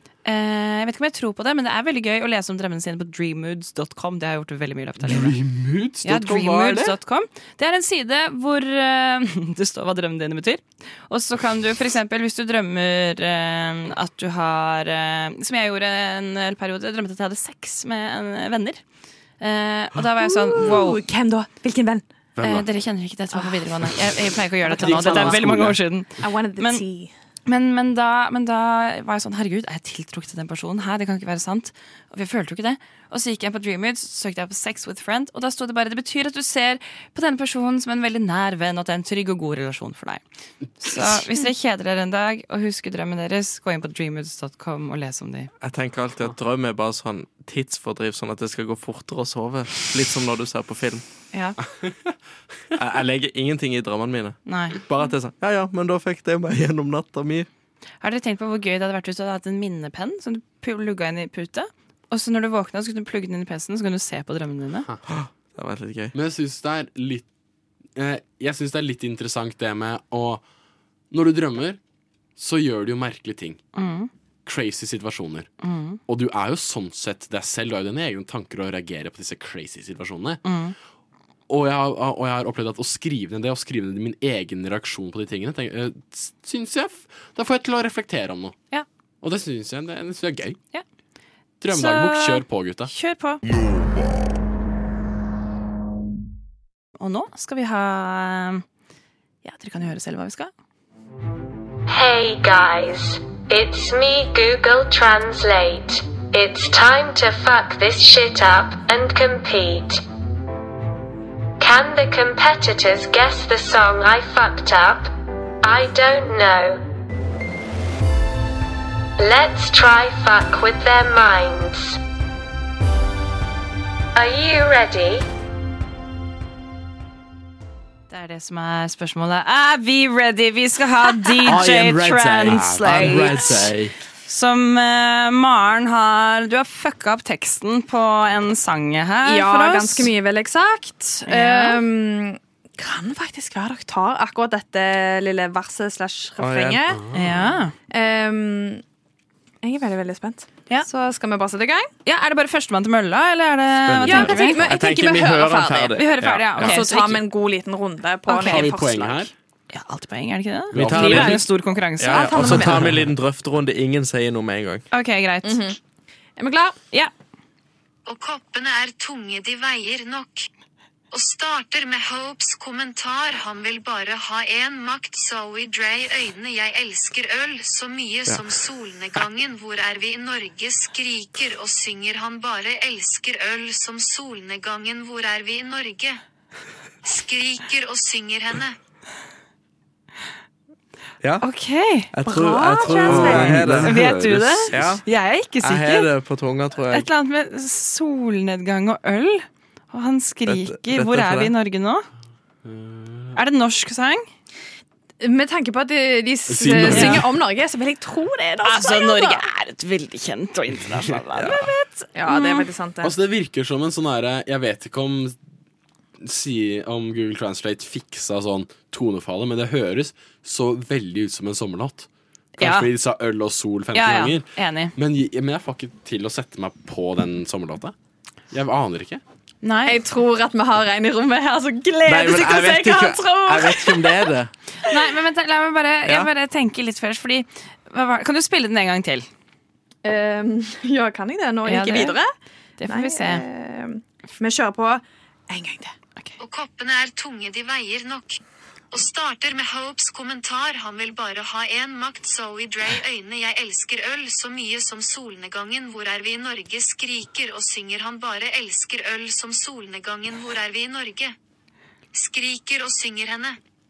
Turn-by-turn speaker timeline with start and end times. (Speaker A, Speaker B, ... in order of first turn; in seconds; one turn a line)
Speaker A: 0.2-5.4
Speaker B: 5.0-7.0
Speaker A: 6.0-18.8
Speaker A: 19.4-21.0
Speaker C: 20.2-22.0
Speaker B: 22.4-22.7
Speaker A: 22.4-26.8
Speaker C: 24.6-25.4
Speaker B: 24.8-25.8
Speaker C: 26.2-27.1
Speaker A: 27.4-40.2
Speaker A: 40.8-45.5
Speaker D: 45.6-51.0
Speaker B: 51.8-52.1
Speaker D: 52.8-57.5
Speaker A: 54.5-54.8
Speaker A: 58.0-64.9
Speaker D: 65.0-66.1
Speaker B: 66.1-67.2
Speaker B: 68.0-70.4
Speaker B: 71.1-71.8
Speaker B: 72.4-73.6
Speaker A: 73.7-74.1
Speaker B: 74.5-75.5
Speaker A: 75.6-76.0
Speaker B: 76.0-80.4
Speaker A: 80.4-80.7
Speaker B: 81.5-88.5
Speaker B: 89.2-90.6
Speaker B: 91.6-92.9
Speaker A: 91.7-93.4
Speaker A: 97.0-98.6
Speaker A: 99.4-100.5
Speaker E: 101.9-110.0
Speaker E: 111.6-115.1
Speaker E: 115.6-116.8
Speaker E: 119.2-122.0
Speaker E: 124.1-125.2
Speaker A: 128.1-133.7
Speaker D: 131.4-133.9
Speaker B: 132.4-133.6
Speaker A: 134.3-140.1
Speaker C: 139.2-147.0
Speaker A: 141.2-141.8
Speaker D: 146.4-146.8
Speaker B: 146.9-147.6
Speaker A: 147.1-147.7
Speaker C: 147.9-148.8
Speaker C: 149.6-151.9
Speaker A: 152.0-154.7
Speaker D: 153.9-156.8
Speaker C: 154.0-156.0
Speaker A: 155.9-157.2
Speaker C: 156.6-159.3
Speaker A: 158.3-158.7
Speaker B: 158.4-159.3
Speaker A: 159.7-162.3
Speaker B: 160.7-161.4
Speaker D: 160.7-164.8
Speaker C: 162.1-162.9
Speaker B: 162.4-163.1
Speaker A: 164.9-165.7
Speaker C: 165.4-165.8
Speaker C: 166.4-166.8
Speaker F: 168.1-170.5
Speaker F: 171.1-186.2
Speaker F: 187.0-188.8
Speaker A: 191.4-192.1
Speaker D: 192.1-195.0
Speaker C: 192.2-193.8
Speaker A: 193.0-196.1
Speaker B: 193.1-193.9
Speaker D: 195.6-197.1
Speaker A: 196.9-202.1
Speaker D: 200.4-201.5
Speaker B: 202.6-203.3
Speaker A: 203.3-204.3
Speaker C: 205.2-209.4
Speaker B: 206.5-207.3
Speaker A: 206.9-207.2
Speaker A: 208.6-212.7
Speaker D: 211.3-211.7
Speaker C: 212.1-213.1
Speaker B: 213.0-215.4
Speaker B: 216.2-222.1
Speaker A: 222.6-222.9
Speaker B: 222.6-227.9
Speaker A: 223.9-224.9
Speaker B: 228.5-229.2
Speaker A: 229.6-230.0
Speaker C: 229.8-234.3
Speaker D: 232.1-234.5
Speaker A: 234.8-239.3
Speaker D: 236.0-236.3
Speaker C: 240.0-242.3
Speaker A: 241.7-242.2
Speaker A: 242.8-243.4
Speaker C: 242.9-245.9
Speaker F: 246.4-248.4
Speaker F: 248.9-261.3
Speaker F: 262.1-263.6